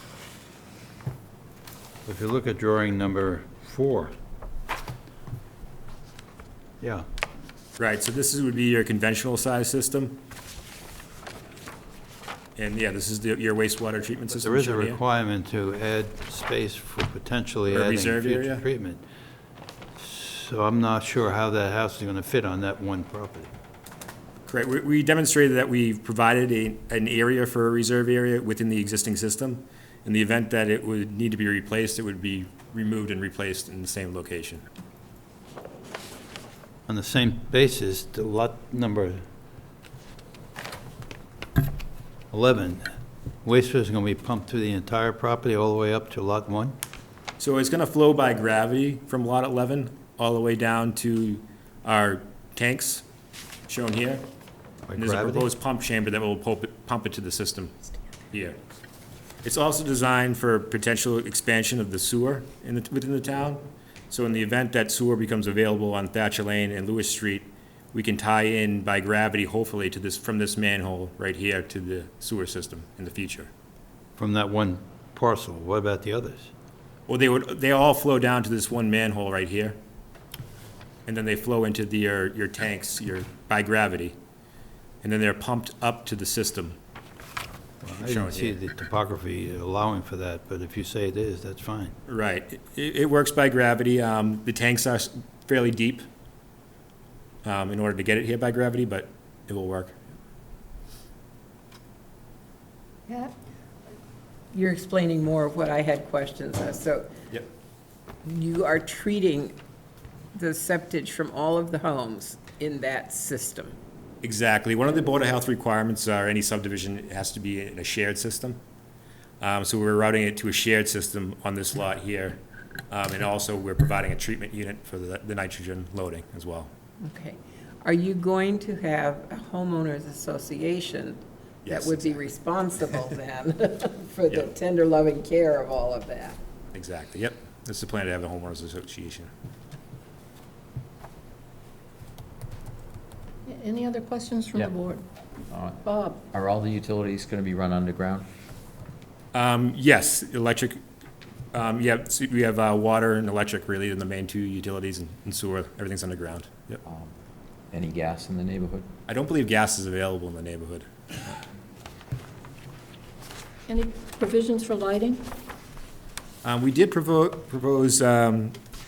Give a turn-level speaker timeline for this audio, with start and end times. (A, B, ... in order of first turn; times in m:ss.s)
0:02.0-0:04.1 A
0:07.8-0:10.2 B
0:12.6-0:15.0 B
0:14.3-0:19.0 A
0:17.7-0:18.6 B
0:20.0-0:23.5 A
0:24.4-0:34.6 B
0:36.9-0:39.2 A
0:42.3-0:42.9 A
0:43.4-0:46.8 A
0:47.4-0:53.0 B
0:53.7-0:54.2 B
0:54.8-0:55.5 A
0:55.0-0:57.7 B
0:58.3-0:58.6 B
0:59.4-1:13.5 B
1:14.2-1:16.5 A
1:17.1-1:19.8 B
1:21.1-1:24.2 B
1:25.0-1:26.8 B
1:27.8-1:31.9 A
1:27.9-1:28.6 B
1:32.1-1:36.0 B
1:37.4-1:39.9 B
1:43.1-1:43.3 C
1:44.5-1:47.1 C
1:48.2-1:49.6 C
1:50.3-1:53.8 C
1:54.2-1:58.6 B
1:59.4-2:02.4 B
2:02.9-2:06.7 B
2:07.0-2:16.4 C
2:11.6-2:12.2 B
2:16.7-2:19.3 B
2:23.4-2:25.0 D
2:25.5-2:25.8 E
2:25.8-2:26.2 D
2:26.3-2:28.2 E
2:29.3-2:30.8 B
2:31.5-2:36.8 B
2:36.8-2:37.1 E
2:37.7-2:38.9 E
2:39.1-2:41.4 B
2:43.7-2:45.2 D
2:46.4-2:48.5 B